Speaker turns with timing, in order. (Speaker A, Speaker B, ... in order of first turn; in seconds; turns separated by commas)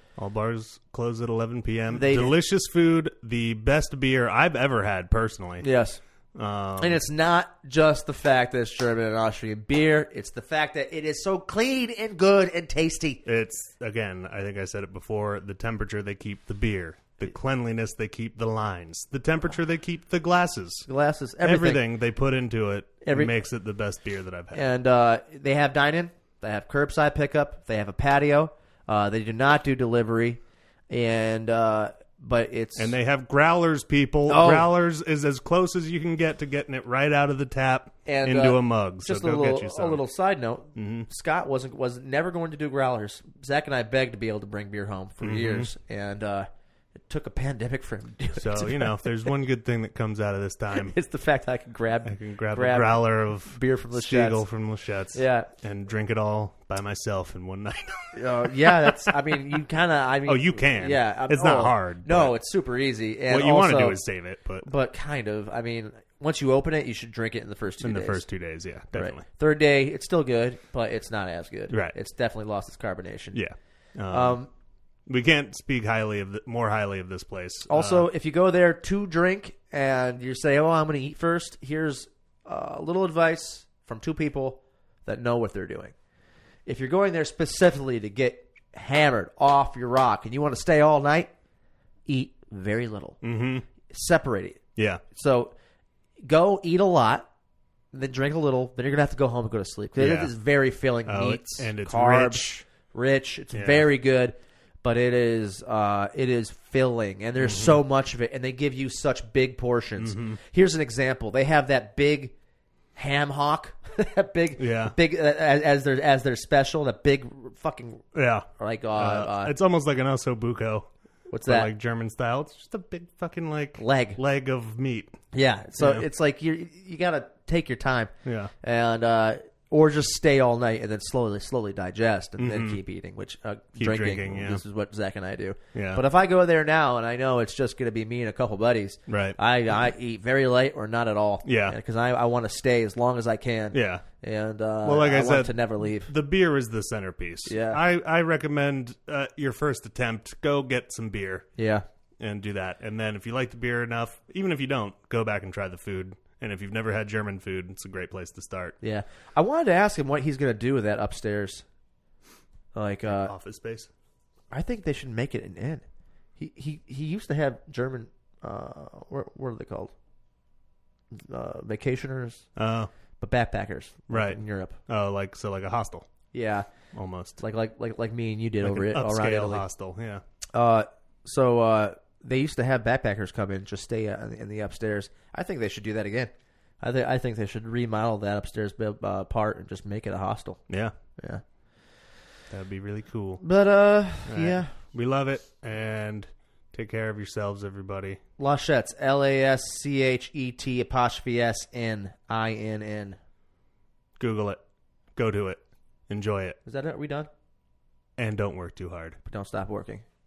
Speaker A: 0.2-5.7, Speaker B: 1.9-2.3, Speaker B: 5.6-6.0, Speaker A: 6.3-7.0, Speaker B: 6.8-13.2, Speaker A: 13.2-20.9, Speaker B: 20.9-21.8, Speaker A: 21.4-24.6, Speaker B: 23.0-23.3, Speaker B: 24.5-33.0, Speaker A: 32.8-40.0, Speaker B: 34.3-34.7, Speaker B: 38.0-46.5, Speaker A: 40.8-41.1, Speaker A: 45.2-45.7, Speaker B: 47.1-49.3, Speaker A: 48.4-50.9, Speaker B: 50.7-54.4, Speaker A: 52.0-59.6, Speaker B: 55.1-55.5, Speaker B: 58.1-64.0, Speaker A: 60.2-62.3, Speaker A: 63.3-64.7, Speaker B: 64.6-68.2, Speaker A: 67.8-69.2, Speaker B: 68.9-73.4, Speaker A: 71.7-71.9, Speaker A: 73.3-74.4, Speaker B: 74.1-74.5, Speaker A: 75.1-78.1, Speaker B: 77.7-85.9, Speaker B: 86.7-91.3, Speaker B: 92.0-93.2, Speaker A: 93.2-93.7, Speaker B: 93.9-94.6, Speaker A: 94.8-95.0, Speaker B: 95.1-95.5, Speaker B: 96.2-97.3, Speaker B: 97.9-112.3, Speaker A: 100.0-100.3, Speaker A: 101.1-102.6, Speaker A: 103.5-103.9, Speaker A: 107.4-107.8, Speaker A: 110.0-110.4, Speaker B: 113.0-118.0, Speaker A: 114.6-115.0, Speaker A: 118.1-120.9, Speaker B: 118.6-119.5, Speaker B: 121.3-121.7, Speaker A: 121.5-125.2, Speaker B: 123.8-124.2, Speaker B: 125.3-146.1, Speaker A: 125.8-126.0, Speaker A: 128.2-128.5, Speaker A: 132.4-132.8, Speaker A: 133.8-134.6, Speaker A: 135.7-136.0, Speaker A: 139.1-139.4, Speaker A: 141.4-141.8, Speaker A: 143.7-144.0, Speaker A: 144.8-151.5, Speaker B: 147.4-147.8, Speaker B: 151.6-151.8, Speaker A: 152.2-158.8, Speaker B: 158.8-161.6, Speaker B: 162.7-163.3, Speaker A: 163.0-163.9, Speaker B: 164.5-165.8, Speaker B: 166.4-169.9, Speaker B: 171.1-172.4, Speaker A: 172.6-172.9, Speaker B: 173.2-174.8, Speaker A: 174.1-176.1, Speaker B: 176.3-176.7, Speaker A: 176.9-177.4, Speaker B: 177.4-179.6, Speaker A: 178.6-180.2, Speaker B: 180.5-190.6, Speaker B: 191.2-191.4, Speaker A: 192.5-193.4, Speaker B: 193.4-194.7, Speaker A: 194.2-198.2, Speaker B: 198.4-203.2, Speaker A: 204.2-204.6, Speaker A: 205.1-206.6, Speaker B: 206.6-207.3, Speaker A: 208.2-209.2, Speaker B: 209.2-210.0